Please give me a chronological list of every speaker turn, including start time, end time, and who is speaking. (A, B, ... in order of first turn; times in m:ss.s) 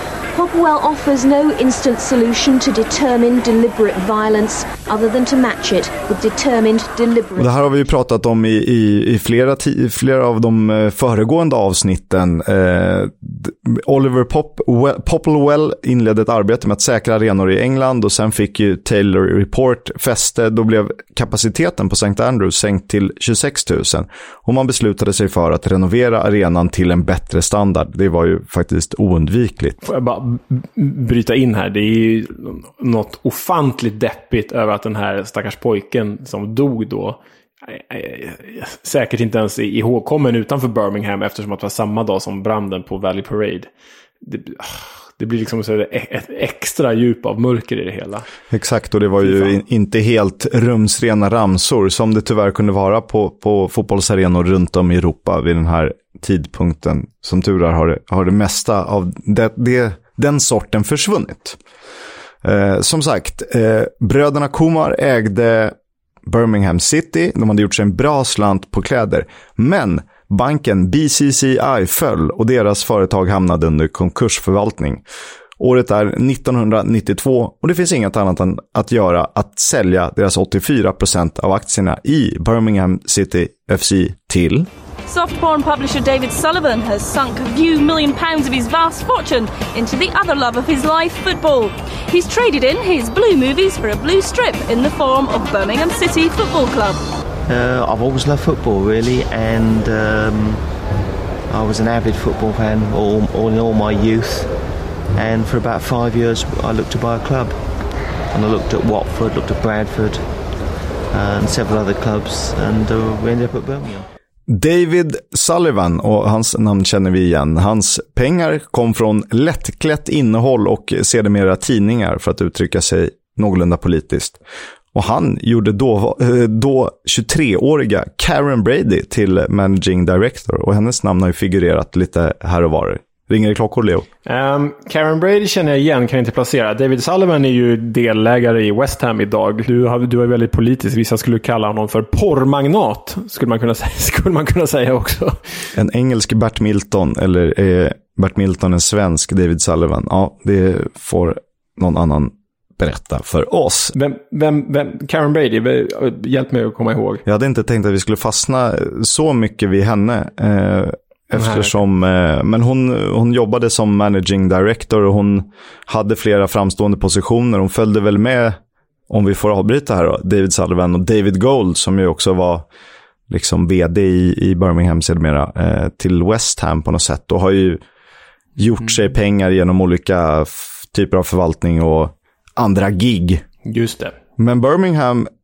0:00.3-0:07.5 A
0:07.4-0:29.8 B
0:29.8-0:43.7 C
0:44.2-0:48.3 C
0:48.5-1:01.6 B
0:49.2-0:49.6 C
1:02.4-1:15.0 B
1:15.6-1:24.7 B
1:25.1-1:37.0 D
1:37.5-1:40.6 E
1:41.5-1:44.5 E
1:45.2-1:47.6 E
1:48.3-1:50.2 E
1:51.1-1:54.1 E
1:54.5-2:04.4 B
2:04.9-2:14.1 B
2:14.3-2:25.4 C
2:25.8-2:33.9 B
2:33.9-2:37.2 C
2:37.3-2:48.6 B
2:41.3-2:41.8 C
2:49.1-2:52.6 B
2:53.3-2:57.8 B
2:58.6-3:03.4 B
3:03.6-3:04.2 C
3:04.4-3:05.3 B